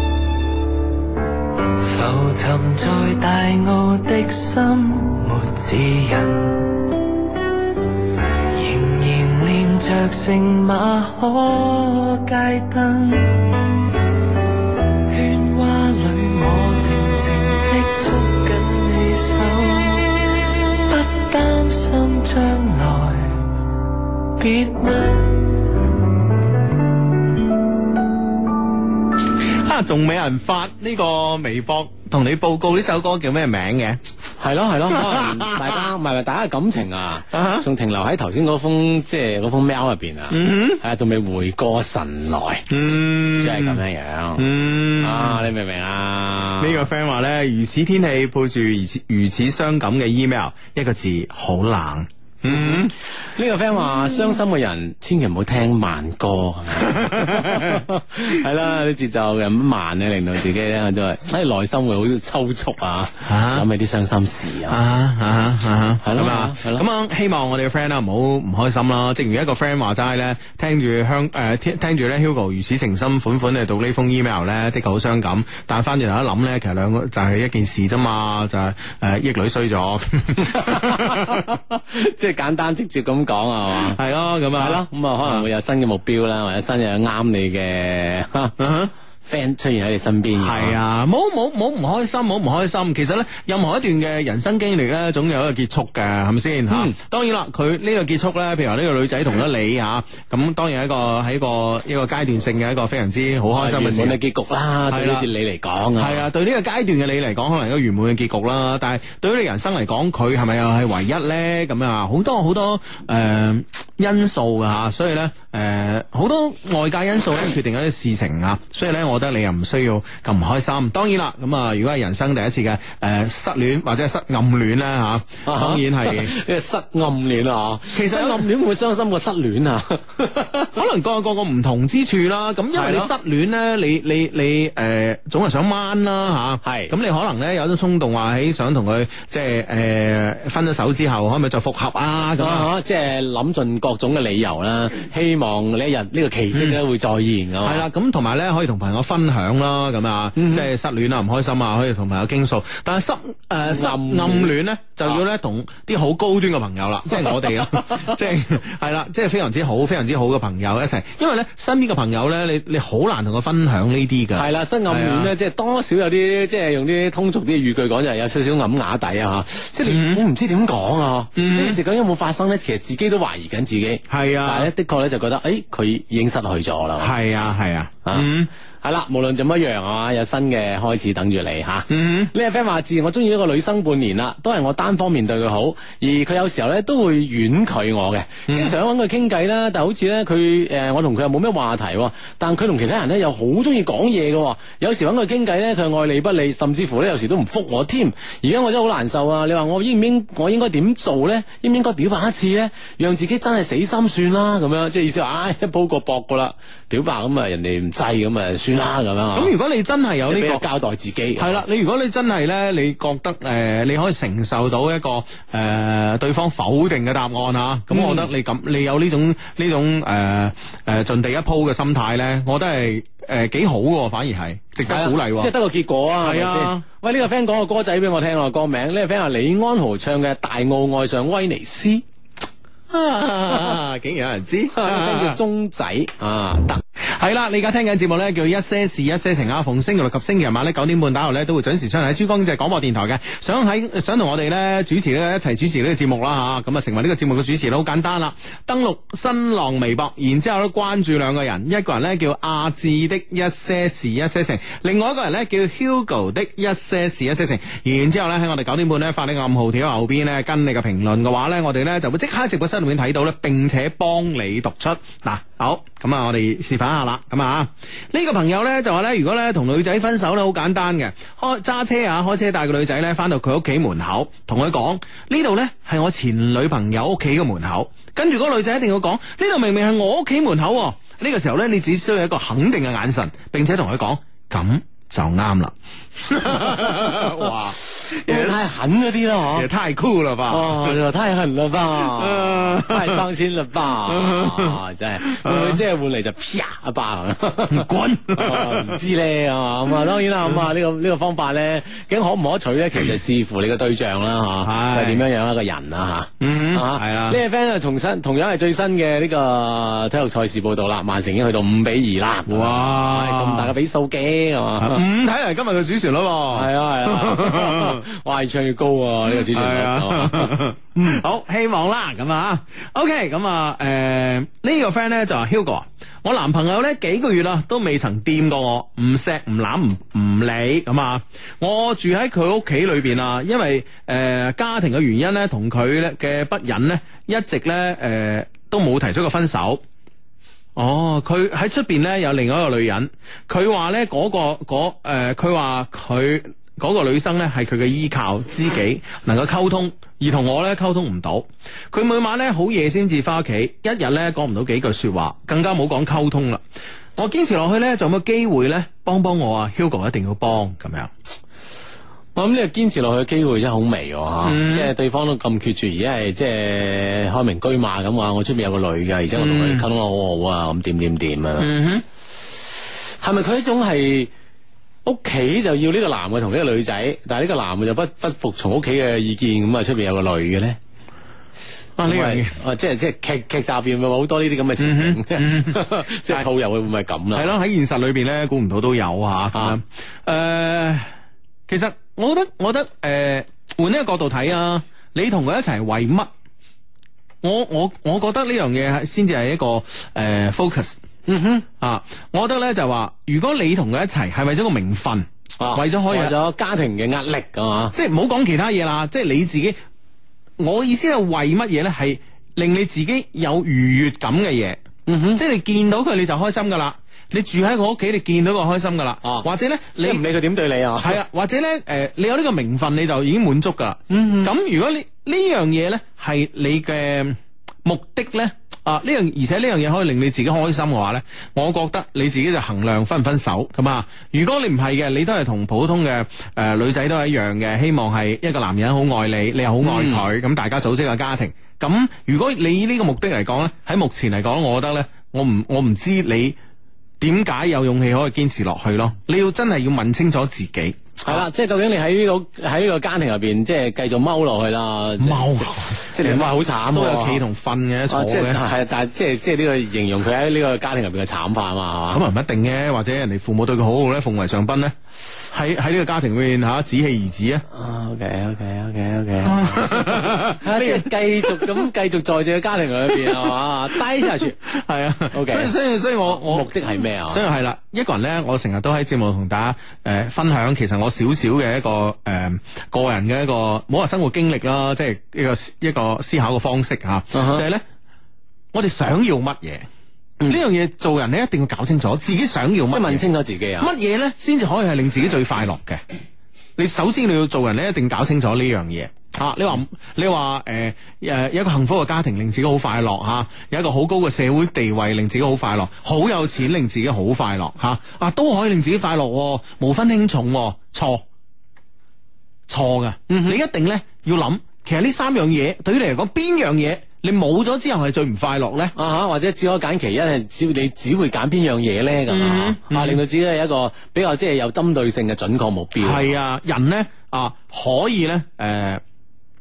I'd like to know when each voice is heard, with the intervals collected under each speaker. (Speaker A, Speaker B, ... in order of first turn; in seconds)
Speaker A: 1.8-6.9, 8.5-13.7, 15.1-20.1, 20.9-23.5, 24.4-25.7
Speaker B: 29.6-34.0, 34.9-35.8, 37.3-37.7, 40.3-40.8, 42.7-43.8, 44.4-45.5, 46.6-52.9, 56.8-57.8, 63.3-63.7, 64.7-81.5, 83.9-85.5, 88.6-88.9, 90.4-104.2, 104.9-105.3, 106.0-126.3, 127.9-128.5, 130.7-142.7, 146.5-146.8, 147.6-165.3, 169.9-170.2, 171.3-171.8, 174.1-174.7, 177.0-178.5, 181.9-182.3, 188.5-188.7, 209.3-210.7, 211.4-225.5, 226.2-226.8, 232.9-235.4, 237.0-288.6, 289.5-291.0, 292.0-293.2, 294.1-295.8, 297.7-299.0, 304.6-305.2, 306.4-307.4, 312.5-313.7, 314.8-318.0, 319.3-339.8, 340.8-356.6, 357.2-361.1, 364.4-364.9, 369.4-369.9, 371.6-372.0, 382.0-382.6, 384.8-386.5, 387.4-391.1, 391.7-396.3, 397.4-401.0, 401.8-406.4, 407.9-409.8, 410.6-414.8, 415.4-420.2, 421.0-446.6, 447.2-451.4, 455.2-458.6, 462.1-467.6, 469.4-471.9, 473.1-473.5, 474.2-476.7, 477.3-487.8, 488.7-489.9, 490.5-493.2, 493.8-496.0, 496.8-511.2, 512.7-518.9, 522.3-523.2, 526.0-529.0
Speaker C: 34.4-42.7, 43.4-44.5, 45.0-46.9, 52.5-64.8, 66.0-66.8, 80.5-84.0, 84.6-88.6, 89.2-90.8, 96.7-97.0, 103.5-106.3, 125.5-130.7, 132.7-133.1, 136.6-136.9, 142.4-147.9, 150.4-150.7, 153.7-154.5, 157.2-158.1, 164.3-177.2, 178.1-209.5, 210.2-211.6, 217.9-218.3, 224.8-232.0, 234.7-236.8, 287.8-289.7, 290.5-315.0, 316.5-321.2, 362.4-371.8, 373.2-374.3, 375.1-380.8, 382.1-387.5, 401.3-401.7, 405.6-407.9, 415.1-415.4, 419.2-419.5, 420.0-421.2, 424.1-424.5, 439.8-440.2, 451.2-457.4, 458.1-462.2, 467.7-474.6, 475.3-475.7, 476.2-477.4, 487.3-487.6, 492.9-493.9, 513.3-513.6, 519.0-526.3